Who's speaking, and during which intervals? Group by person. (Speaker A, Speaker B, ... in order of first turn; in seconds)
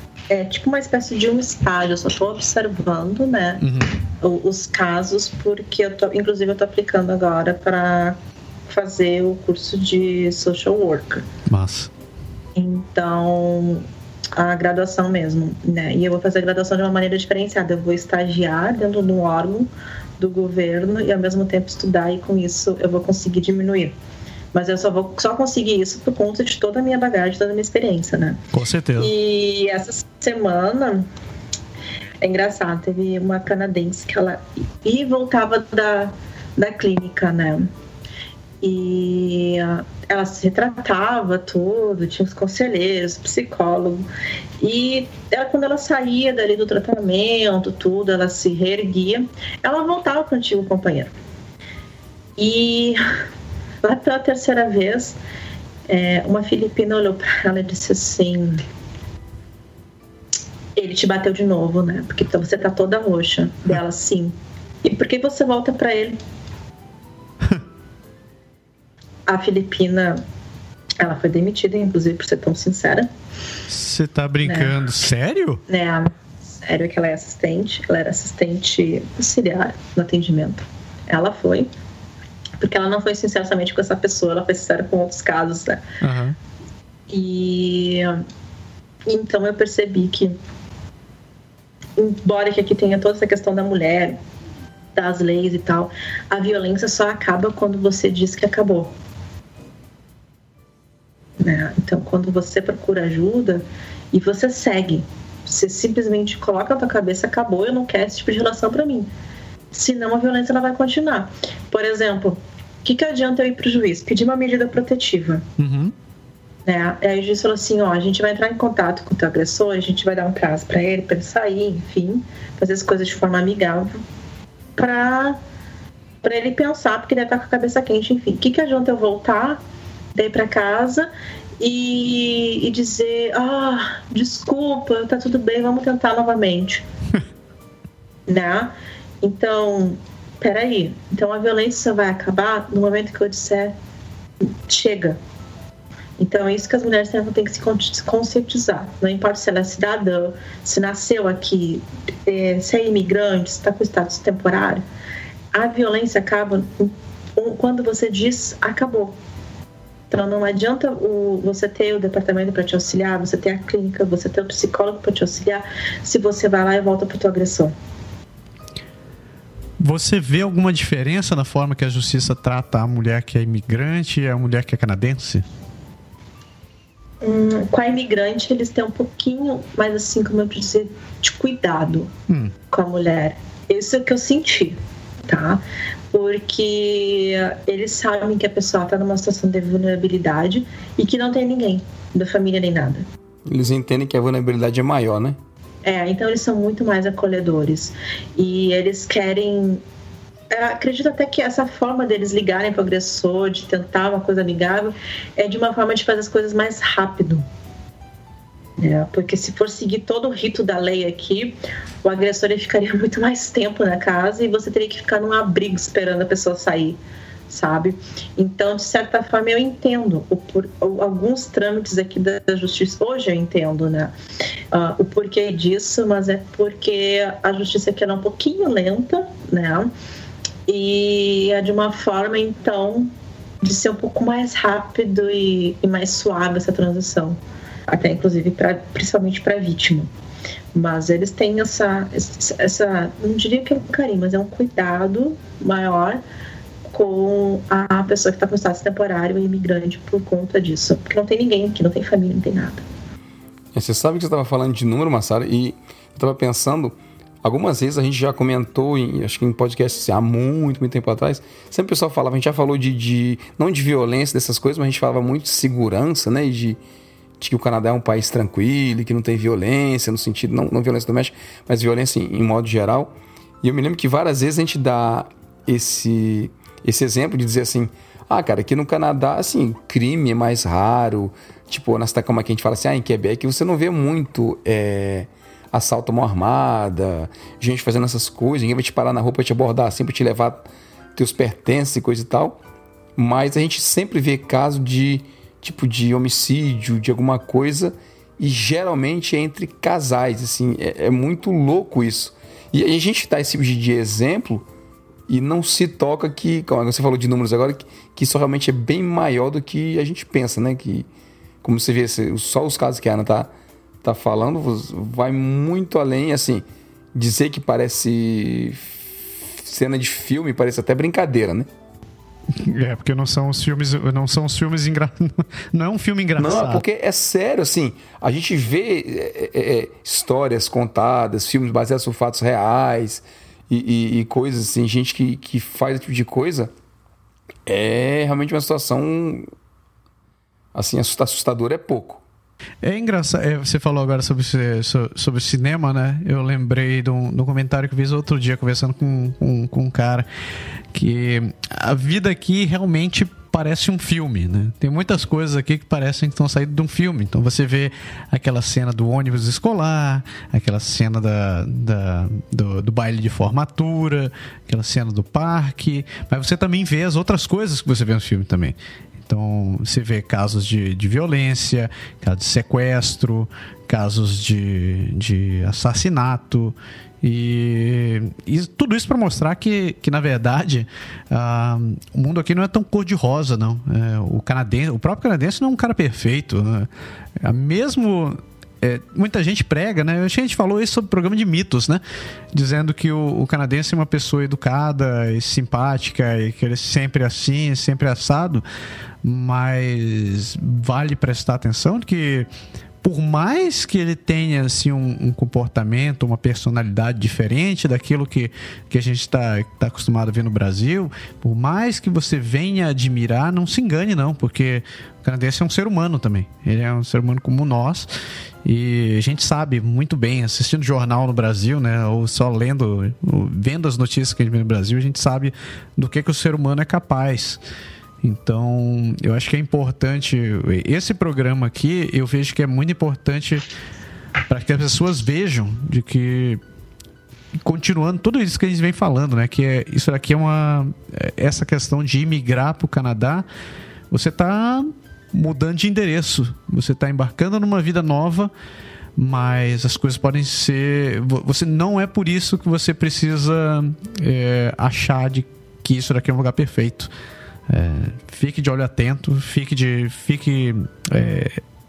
Speaker A: 0.3-3.6, 4.2-11.3, 12.6-23.9, 24.5-28.4, 29.0-31.1, 32.2-37.7, 38.6-44.1, 44.6-51.1, 52.4-53.0, 53.8-55.2, 55.9-58.6, 60.8-66.2, 69.3-70.2, 71.0-73.1, 74.5-74.8, 75.7-81.7, 82.6-85.8, 87.1-88.2, 89.1-90.4, 92.0-94.2, 95.0-98.9, 101.4-109.1, 109.7-115.5, 116.7-124.0, 124.8-125.4, 126.2-129.6, 130.2-131.1, 131.6-136.8, 138.3-143.8, 144.4-145.2, 146.2-154.8, 155.5-159.2, 160.1-167.7, 177.2-182.1, 182.7-193.1, 195.8-199.8, 200.5-207.4, 208.8-217.0, 217.5-224.1, 224.7-229.9, 230.7-240.1, 240.7-246.2, 246.9-252.8
Speaker B: 3.6-4.0, 11.5-11.9, 28.5-29.1, 73.7-75.6, 86.0-86.4, 115.6-115.9, 169.8-175.4, 182.3-182.5, 322.5-326.8, 342.8-350.3, 350.9-386.9, 387.4-398.6, 399.2-402.5, 403.0-418.1, 418.6-427.6, 428.2-433.7, 434.5-436.6, 437.6-443.4, 444.1-448.5, 449.2-457.1, 457.7-461.6
Speaker C: 193.5-195.4, 253.8-266.8, 267.4-292.6, 293.2-304.7, 305.3-311.1, 311.6-313.5, 314.0-321.7, 326.4-336.7, 337.7-339.5, 340.8-342.2